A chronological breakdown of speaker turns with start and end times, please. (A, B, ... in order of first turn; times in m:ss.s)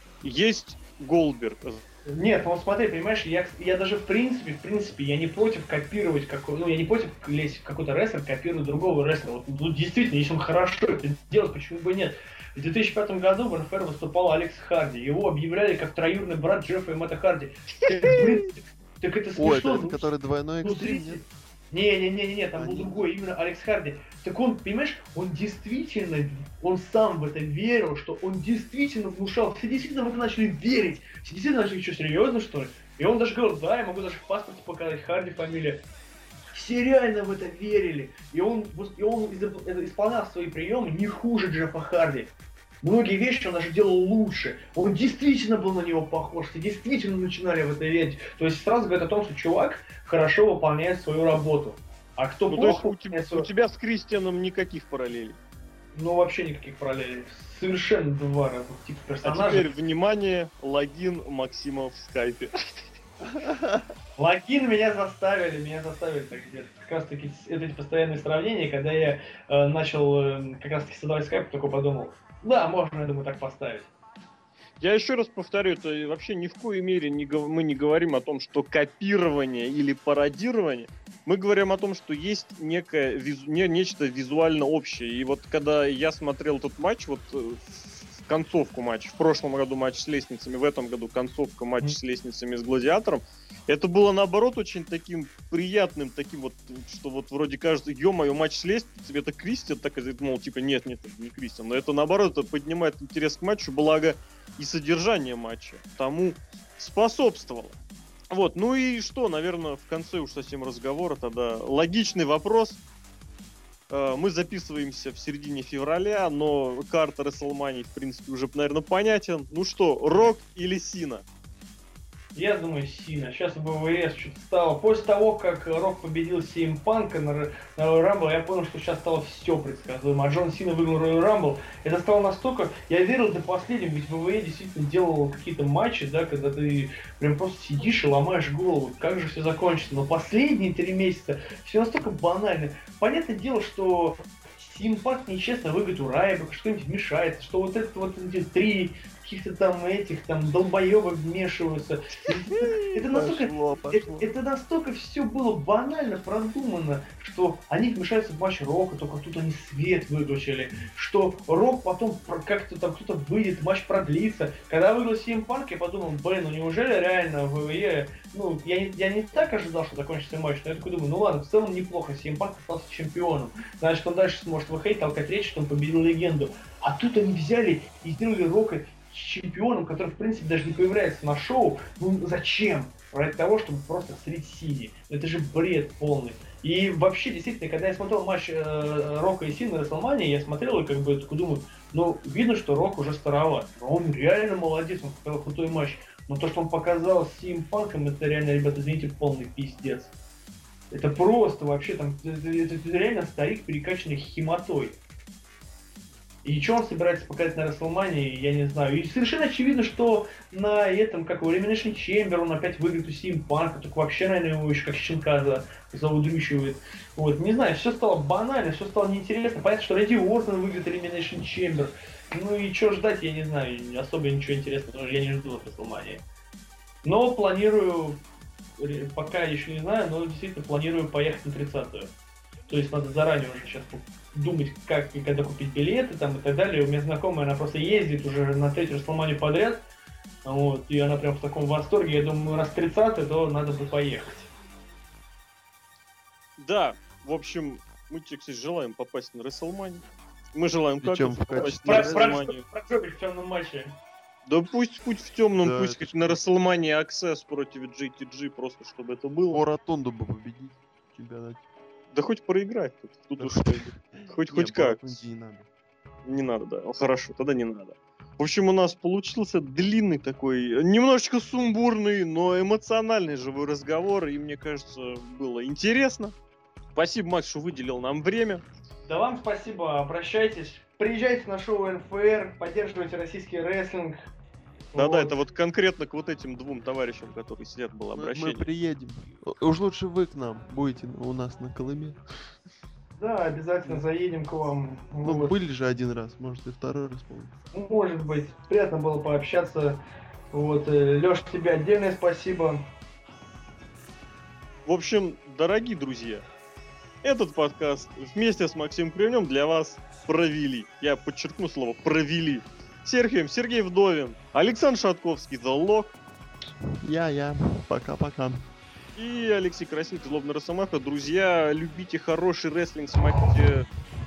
0:00.2-0:01.8 A
0:02.1-0:20.1 B
0:19.4-0:21.2 C
0:20.6-0:35.8 B
0:22.6-0:23.1 C
0:36.5-0:42.3 B
0:42.8-0:53.5 B
0:52.5-0:55.4 A
0:55.9-0:59.7 B
0:59.2-1:02.9 A
1:03.4-1:03.8 C
1:04.2-1:13.9 B
1:14.8-1:47.8 A
1:48.3-1:52.8 A
1:53.9-2:01.2 A
2:02.4-3:20.1 B
2:32.6-2:34.3 C
3:20.9-3:25.0 B
3:26.4-3:46.2 B
3:47.0-3:48.2 B
3:48.8-3:52.1 B
3:52.7-3:59.8 B
4:00.4-4:04.5 B
4:06.6-4:12.6 A
4:11.0-4:12.5 C
4:11.8-4:14.0 B
4:14.5-4:19.6 A
4:15.6-4:16.4 C
4:19.5-4:21.6 C
4:22.1-4:25.2 A
4:23.4-4:25.7 C
4:26.2-4:36.3 A
4:37.0-4:38.6 A
4:39.1-4:44.2 B
4:44.9-4:45.4 B
4:45.0-4:48.7 A
4:48.1-4:52.5 C
4:53.2-4:55.5 B
4:55.2-4:57.6 C
4:57.7-5:00.0 B
5:00.5-5:02.8 B
5:04.9-5:06.4 A
5:07.2-5:16.2 A
5:17.0-5:18.6 C
5:19.2-5:23.9 A